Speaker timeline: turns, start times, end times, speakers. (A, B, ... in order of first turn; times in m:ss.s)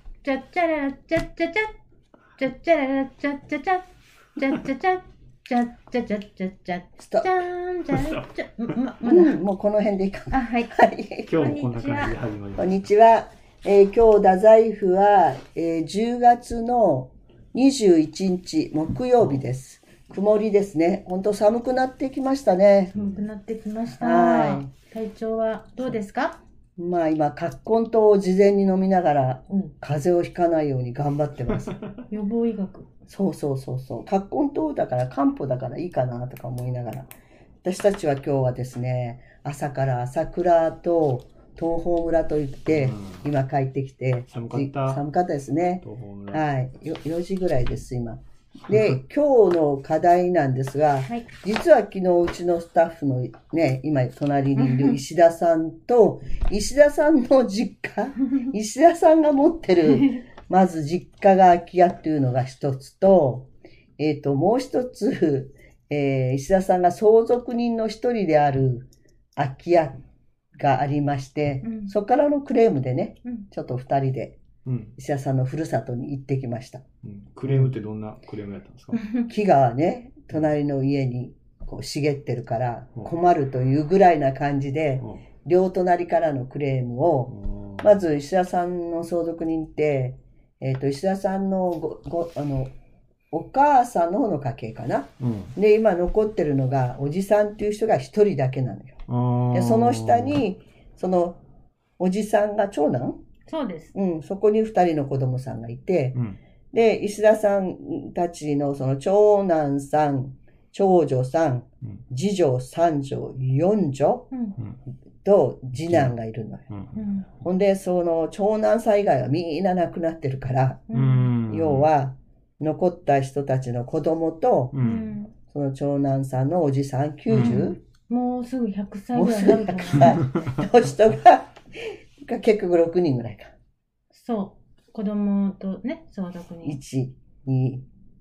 0:00.2-0:01.7 A
0:02.4-0:09.4 A
0:07.0-0:07.3 B
0:07.9-0:08.2 C
0:09.0-0:11.3 B
0:10.3-0:10.8 A
0:11.3-0:12.9 C
0:11.3-0:12.2 A
0:12.6-0:23.0 B
0:22.9-0:23.3 C
0:23.0-0:26.4 A
0:24.0-0:24.7 B
0:26.8-0:31.8 B
0:32.1-0:32.9 A
0:33.1-0:37.1 B
0:37.6-1:10.0 B
0:42.7-0:43.2 C
0:44.3-0:45.0 C
0:45.8-0:46.4 C
0:54.6-0:55.0 A
0:59.9-1:00.2 A
1:10.6-1:14.4 B
1:11.6-1:11.9 A
1:14.6-1:14.9 C
1:15.0-1:16.8 B
1:17.0-1:19.0 C
1:18.9-1:19.3 A
1:19.3-1:32.7 B
1:27.3-1:28.0 C
1:33.3-1:39.0 B
1:35.2-1:35.6 C
1:39.1-1:40.4 C
1:39.5-1:41.4 B
1:42.0-1:43.2 B
1:43.5-1:43.9 A
1:43.9-1:46.2 B
1:46.7-1:54.3 B
1:54.3-1:54.6 A
1:55.2-1:56.7 B
1:55.9-1:56.1 C
1:56.7-1:57.0 C
1:57.0-1:57.3 A
1:57.4-2:00.9 B
2:00.9-2:01.3 A
2:00.9-2:01.9 C
2:01.5-2:04.8 B
2:04.7-2:05.2 C
2:04.8-2:05.3 A
2:05.5-2:07.8 B
2:07.3-2:07.6 C
2:07.4-2:10.2 A
2:09.1-2:13.5 B
2:14.1-2:16.8 A
2:16.6-2:17.8 B